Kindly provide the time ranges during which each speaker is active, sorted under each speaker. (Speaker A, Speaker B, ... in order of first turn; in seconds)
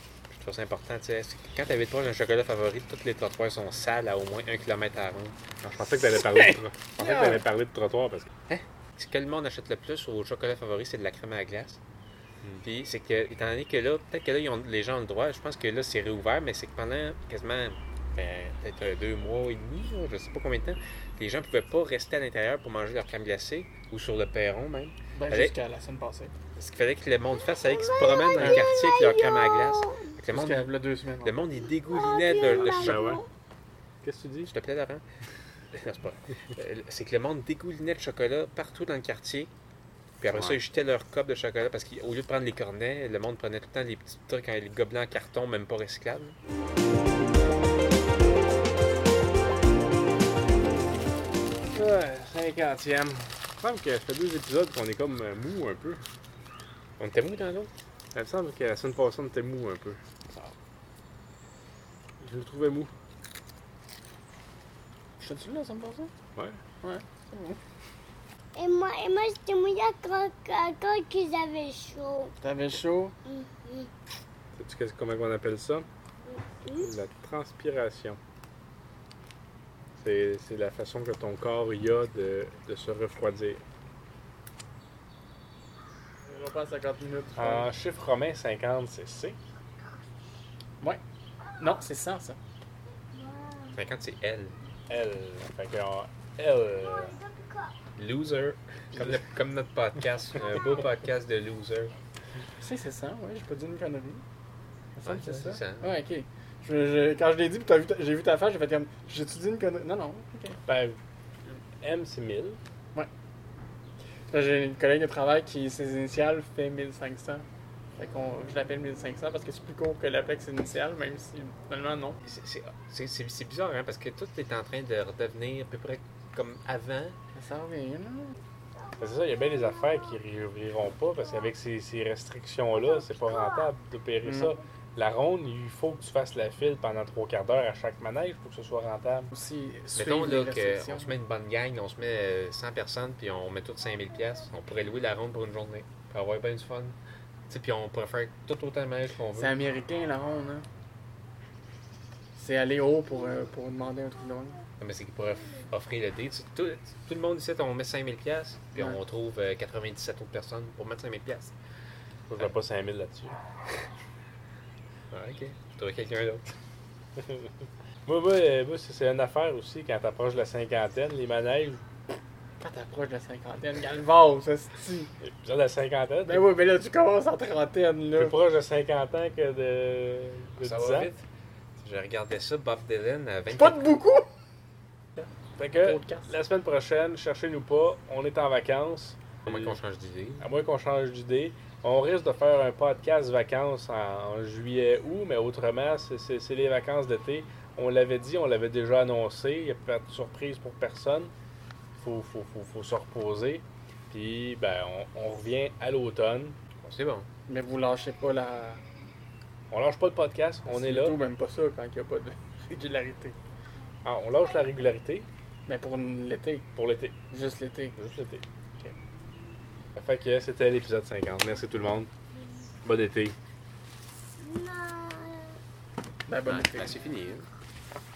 Speaker A: 0.3-5.4, 8.5-11.8, 12.6-25.6, 26.6-30.7, 31.2-33.0, 34.5-35.0, 35.7-39.5, 40.2-46.4, 57.0-57.7, 93.7-94.6, 98.0-101.9, 105.0-106.0, 122.2-127.2, 139.9-147.0, 147.5-149.6, 154.8-161.6, 165.1-166.5, 180.6-181.2, 181.8-183.8, 189.4-190.5, 206.8-207.3, 226.4-227.5
Speaker B: 5.6-8.3, 32.5-33.2, 34.0-34.5, 40.3-40.6, 51.7-56.0, 58.1-60.0, 62.2-62.9, 66.3-66.6, 74.5-75.9, 76.7-78.2, 80.0-83.6, 87.4-89.4, 94.9-97.2, 110.7-111.0, 111.8-112.6, 129.0-139.3, 162.3-163.4, 167.2-167.5, 168.1-171.8, 175.2-176.5, 178.2-181.1, 185.6-189.8, 190.4-201.3, 201.9-206.6, 209.7-211.2, 214.0-215.3, 216.8-217.2, 218.0-218.4, 220.0-222.1, 222.8-223.4
Speaker C: 6.1-7.4, 25.1-26.3, 30.3-31.4, 60.3-60.5, 65.2-66.1, 66.8-67.6, 72.4-73.2, 86.3-87.7, 91.6-92.4, 102.6-104.2, 105.0-110.6, 114.3-117.5, 118.0-122.2, 127.3-128.4, 134.2-134.6, 139.3-141.2, 149.4-150.7, 152.3-154.6, 172.6-175.1, 176.2-178.4, 183.5-184.3, 185.8-186.3, 207.5-208.8, 210.7-213.4, 215.7-216.7, 217.3-218.0, 226.3-227.0
Speaker D: 28.0-30.0, 32.1-33.2, 68.6-72.3, 73.3-73.9, 224.4-225.5